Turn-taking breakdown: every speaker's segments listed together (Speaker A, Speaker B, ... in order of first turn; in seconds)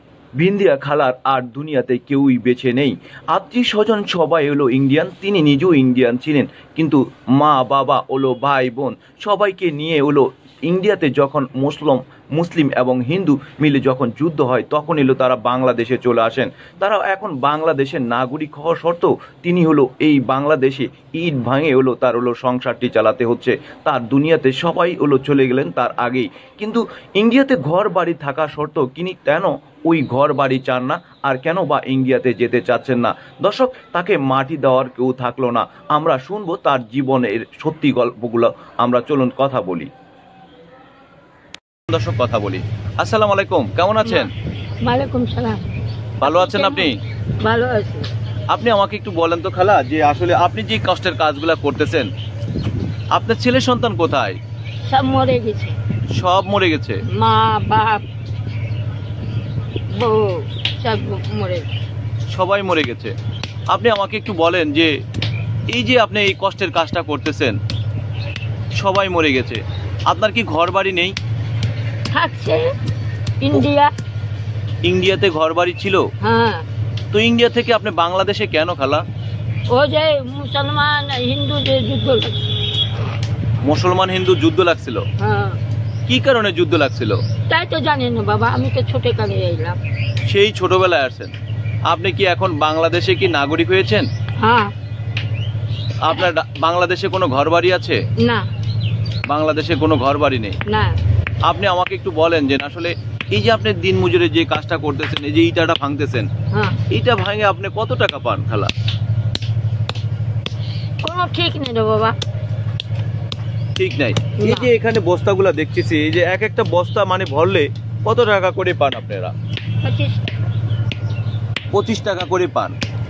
Speaker A: 0.4-39.9, 41.9-44.3, 46.2-47.0, 48.5-52.1, 53.1-54.4, 56.1-57.0, 62.3-63.1, 63.7-64.9, 65.7-67.5, 68.8-71.2, 74.8-76.0, 77.1-79.0, 83.6-85.0, 86.1-87.2, 90.2-91.3, 91.9-94.1, 96.0-98.0, 99.3-100.6, 101.5-106.3, 106.9-108.7, 113.8-119.3, 121.7-122.7
Speaker B: 44.0-44.3, 44.8-45.7, 46.2-46.9, 47.4-48.1, 54.8-55.8, 57.1-58.0, 59.9-61.7, 72.1-72.6, 73.4-73.9, 76.2-76.7, 79.7-82.5, 85.2-85.6, 87.5-89.8, 94.4-94.7, 98.2-98.5, 100.7-101.0, 106.5-106.8, 111.0-112.2, 114.4-114.7, 119.8-120.3